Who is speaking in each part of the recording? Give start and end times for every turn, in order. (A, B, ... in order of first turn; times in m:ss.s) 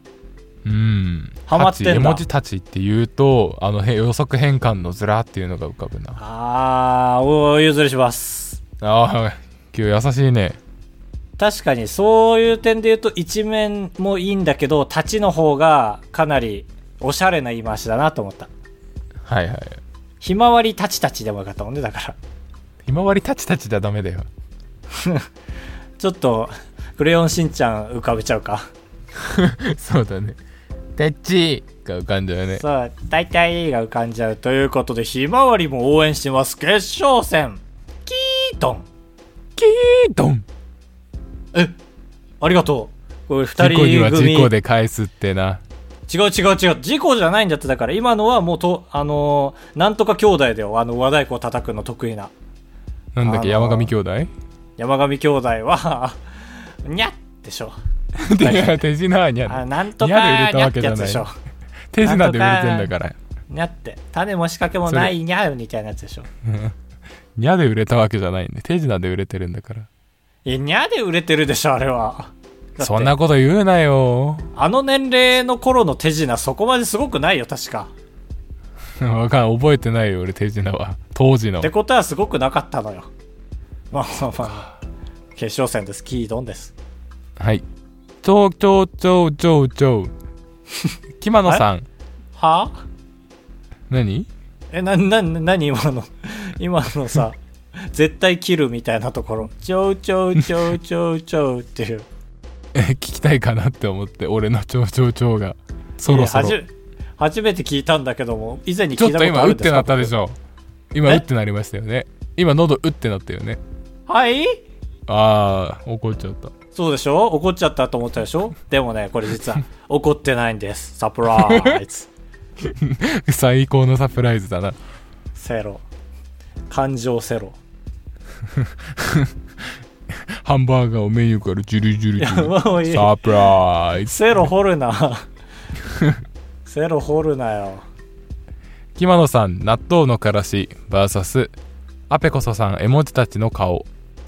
0:00.6-0:06.2 A
0:01.5-0:02.2 B
0:06.2-0:08.6 B
0:08.8-0:10.6 A
0:11.4-0:18.5 B
0:19.2-0:19.8 A
0:20.2-0:22.2 B
0:22.8-0:24.3 A
0:24.9-0:25.3 B
0:26.0-0:28.7 B
0:29.2-0:30.4 A
0:31.0-0:32.6 A
0:32.6-0:38.9 B
0:39.6-0:40.4 A
0:42.4-0:44.5 B
0:43.6-0:45.6 A
0:46.1-0:52.3 B
0:53.2-0:54.3 A
0:53.2-0:53.9 B
0:54.8-0:57.8 B
0:58.2-1:01.2 A
0:58.3-0:58.8 B
0:59.5-1:01.3 B
1:01.9-1:03.2 A
1:02.0-1:02.9 B
1:03.5-1:06.3 B
1:04.9-1:05.1 A
1:06.4-1:06.8 A
1:07.4-1:09.9 A
1:10.4-1:13.1 B
1:12.8-1:14.5 A
1:14.6-1:17.9 B
1:19.0-1:21.7 A
1:21.6-1:23.1 B
1:23.9-1:24.7 B
1:25.4-1:26.7 B
1:27.4-1:27.6 A
1:28.2-1:30.1 A
1:31.2-1:31.9 A
1:32.4-1:32.8 B
1:33.9-1:34.3 A
1:34.7-1:42.1 B
1:42.8-1:46.6 A
1:46.0-1:50.1 B
1:49.0-1:50.4 A
1:50.9-1:53.6 A
1:54.1-1:54.6 B
1:55.1-1:56.5 A
1:56.7-2:02.1 B
2:01.4-2:01.8 A
2:02.6-2:04.8 A
2:05.4-2:05.8 B
2:06.7-2:07.6 B
2:08.5-2:09.3 A
2:10.2-2:14.4 A
2:12.2-2:13.4 B
2:14.0-2:15.3 B
2:15.9-2:16.2 A
2:16.7-2:17.8 B
2:19.0-2:21.5 A
2:22.1-2:23.9 A